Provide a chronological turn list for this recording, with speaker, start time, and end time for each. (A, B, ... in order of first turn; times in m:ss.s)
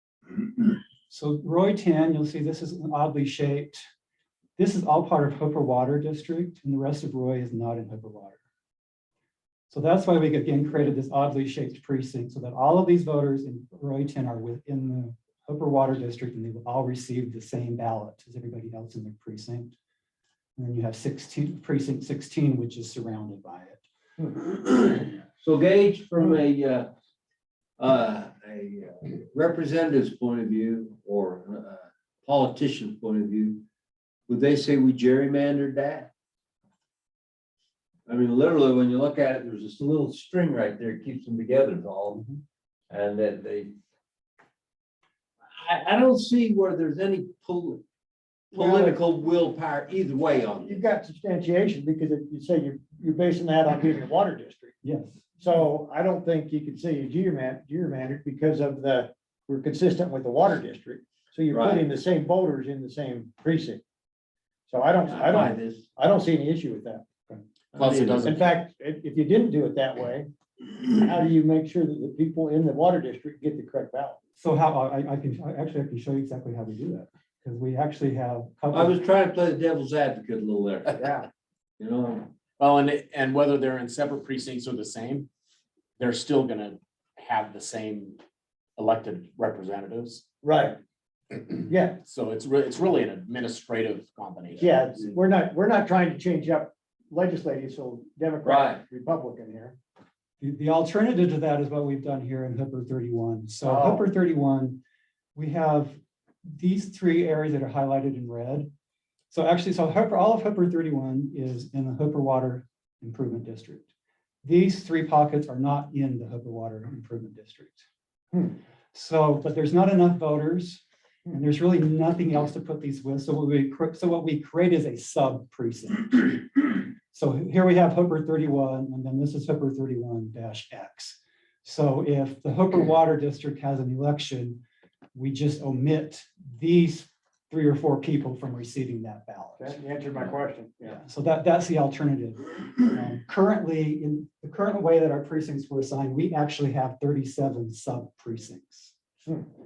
0:00.6-0:03.8 A
0:04.6-0:08.4 A
0:09.7-0:19.7 A
0:20.6-0:23.8 A
0:24.5-0:26.9 B
0:27.8-0:33.6 B
0:34.3-0:36.1 B
0:38.1-0:42.3 B
0:42.9-0:43.8 B
0:45.5-0:47.8 B
0:48.5-0:50.8 B
0:48.5-0:49.0 C
0:50.6-0:54.8 C
0:54.8-0:55.2 A
0:55.4-1:03.8 C
1:01.5-1:01.8 B
1:04.7-1:07.0 C
1:05.0-1:05.9 B
1:07.7-1:08.3 B
1:07.8-1:08.4 D
1:08.2-1:14.2 C
1:14.4-1:19.0 A
1:18.7-1:21.2 B
1:21.0-1:21.2 C
1:21.8-1:22.3 B
1:22.6-1:25.3 D
1:26.0-1:28.2 D
1:28.8-1:30.2 D
1:30.4-1:30.8 C
1:31.7-1:32.0 C
1:32.0-1:34.8 D
1:34.6-1:39.8 C
1:38.4-1:38.8 B
1:40.4-1:44.8 A
1:43.6-1:44.0 C
1:45.4-1:48.7 A
1:49.3-1:53.9 A
1:54.4-1:57.9 A
1:58.9-2:14.6 A
2:15.2-2:19.8 A
2:19.6-2:21.0 C
2:20.9-2:29.0 A